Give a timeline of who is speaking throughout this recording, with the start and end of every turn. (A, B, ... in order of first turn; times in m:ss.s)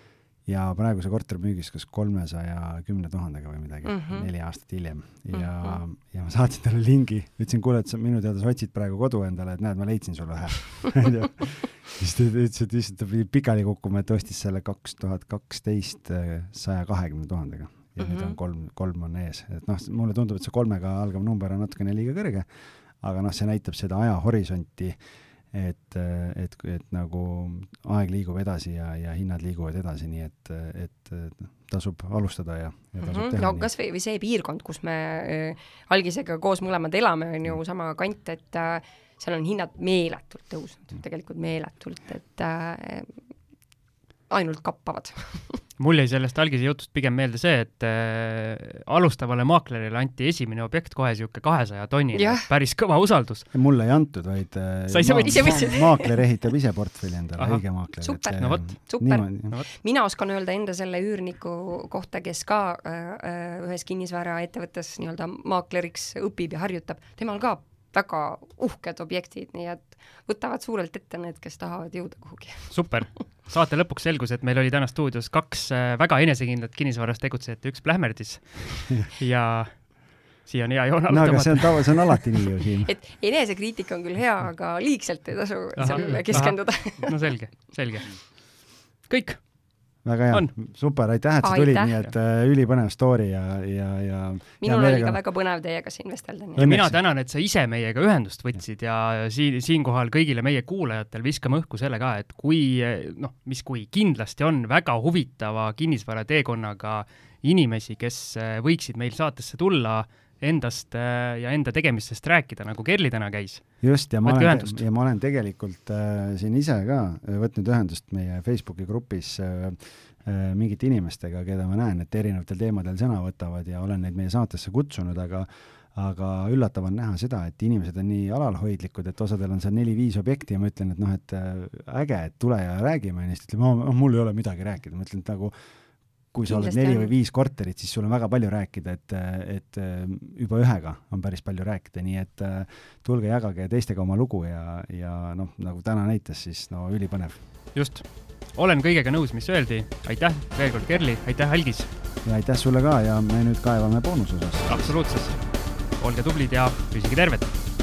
0:00.4-0:22.5 A
0:03.8-0:04.3 B
0:05.3-0:05.8 B
0:18.0-0:18.4 B
0:23.0-0:25.0 A
0:25.5-0:33.7 A
0:33.0-0:43.1 B
0:44.3-0:45.6 B
0:45.8-0:53.4 C
0:52.1-0:52.5 B
0:53.5-0:59.5 A
0:54.9-0:55.7 C
0:55.2-0:56.2 B
0:57.4-0:57.6 C
0:58.0-1:12.8 B
0:58.4-0:58.6 C
1:12.7-1:22.3 C
1:21.1-1:22.9 A
1:22.8-1:27.2 B
1:25.8-1:28.4 C
1:29.0-1:29.5 C
1:30.0-1:35.2 A
1:31.4-1:32.0 B
1:34.6-1:36.7 B
1:36.6-1:37.0 A
1:36.6-1:54.8 C
1:53.8-2:15.5 A
2:16.3-2:27.4 A
2:16.5-2:17.1 B
2:27.7-2:31.9 C
2:32.2-2:35.0 A
2:34.6-2:37.5 C